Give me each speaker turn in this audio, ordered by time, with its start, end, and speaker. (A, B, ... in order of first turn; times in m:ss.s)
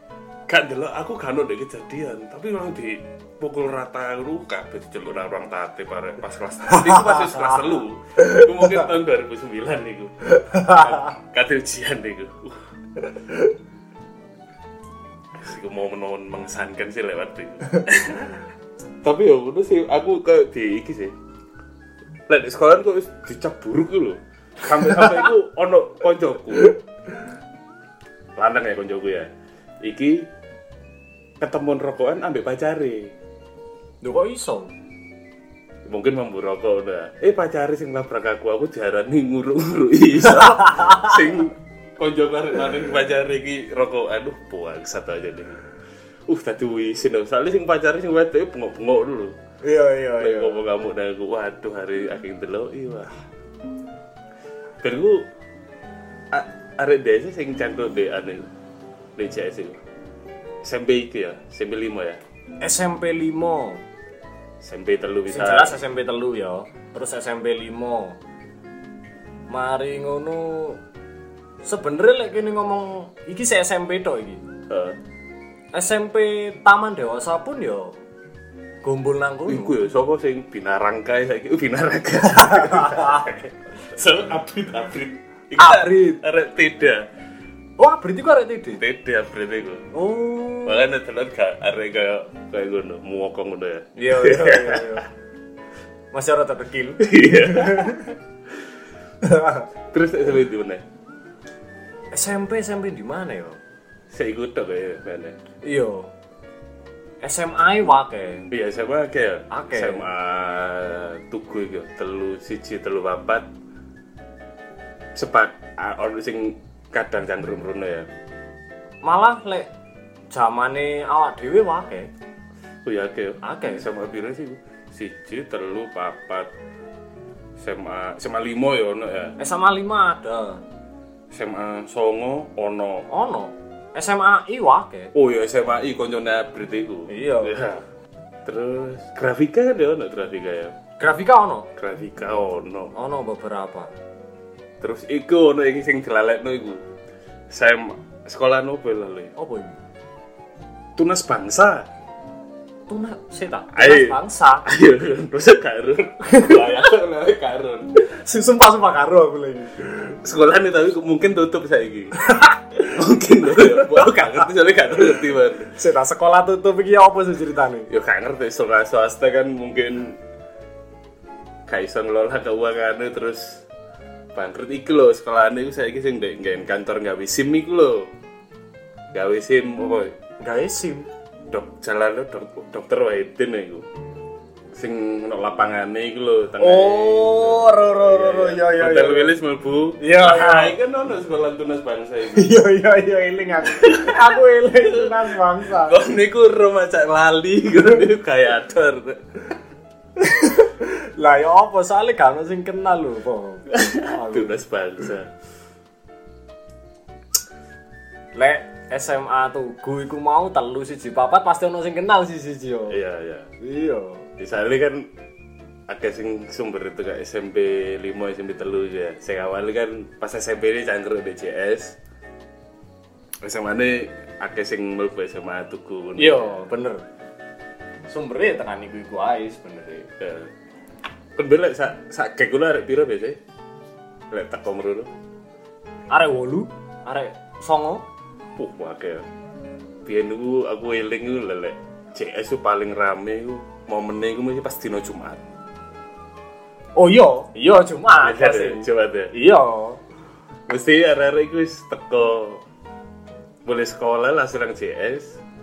0:00.5-0:13.1 A
0:06.7-0:07.7 B
0:08.2-0:08.9 B
0:10.4-0:11.0 B
0:15.4-0:18.4 A
0:19.0-0:21.2 A
0:22.3-0:26.8 A
0:28.4-0:29.3 A
0:29.8-0:30.3 A
0:31.4-0:33.1 A
0:34.0-0:34.7 B
0:35.9-0:45.6 A
0:40.4-0:40.9 B
0:46.3-0:49.4 A
0:49.6-0:50.6 B
0:50.2-0:53.1 A
0:54.8-0:55.2 A
0:56.3-0:58.5 A
0:59.2-0:59.8 A
1:00.6-1:02.2 A
1:02.6-1:03.8 B
1:04.6-1:05.8 A
1:05.3-1:08.2 B
1:09.5-1:10.8 B
1:11.6-1:14.4 B
1:14.7-1:15.0 A
1:15.7-1:18.0 B
1:18.8-1:19.8 B
1:19.5-1:27.1 A
1:22.6-1:23.1 B
1:25.6-1:26.2 B
1:27.8-1:28.8 B
1:28.8-1:29.9 A
1:29.9-1:30.8 B
1:30.6-1:35.0 A
1:34.0-1:35.0 B
1:36.1-1:38.0 B
1:37.0-1:38.1 A
1:39.2-1:39.6 B
1:39.9-1:40.8 A
1:42.1-1:43.6 B
1:44.1-1:45.4 A
1:45.6-1:46.1 B
1:47.2-1:48.5 B
1:48.5-1:53.5 A
1:49.5-1:50.0 B
1:55.2-1:58.1 A
1:59.0-1:59.7 B
2:00.3-2:02.1 B
2:02.8-2:06.5 A
2:03.4-2:03.8 B
2:07.6-2:09.4 A
2:09.4-2:10.6 B
2:11.3-2:13.1 A
2:13.1-2:15.1 B
2:15.1-2:17.8 A
2:17.1-2:17.6 B
2:18.4-2:20.7 A
2:21.0-2:21.7 B
2:21.8-2:22.9 A
2:23.0-2:23.9 B
2:24.8-2:26.8 A
2:27.5-2:29.3 A
2:29.4-2:29.8 B
2:31.0-2:31.9 A
2:32.9-2:34.6 B
2:33.7-2:38.0 A
2:36.3-2:36.8 B
2:38.1-2:39.7 B
2:40.0-2:42.2 A
2:42.2-2:42.6 B
2:42.8-2:45.7 A
2:43.6-2:44.4 B
2:45.8-2:47.9 B
2:47.9-2:50.2 A
2:51.7-2:53.6 A
2:54.3-2:58.1 A
2:59.1-3:00.1 A
3:00.4-3:01.1 B
3:01.5-3:03.8 A
3:04.7-3:12.5 A
3:06.6-3:09.3 B
3:10.0-3:10.8 B
3:12.3-3:16.0 B
3:13.7-3:19.2 A
3:20.2-3:24.5 B
3:23.7-3:25.3 A
3:28.3-3:33.0 B
3:32.9-3:33.5 A
3:33.6-3:34.2 B
3:34.4-3:35.1 A
3:35.9-3:42.0 A
3:43.4-3:46.6 A
3:46.2-3:47.0 B
3:48.1-3:50.1 B
3:50.2-3:50.5 A
3:51.4-3:53.4 A
3:54.3-3:55.1 A
3:56.1-3:58.0 B
3:58.6-3:59.2 A
4:00.1-4:05.4 A
4:07.0-4:10.0 B
4:08.2-4:09.3 A
4:10.7-4:12.6 A
4:13.6-4:15.4 A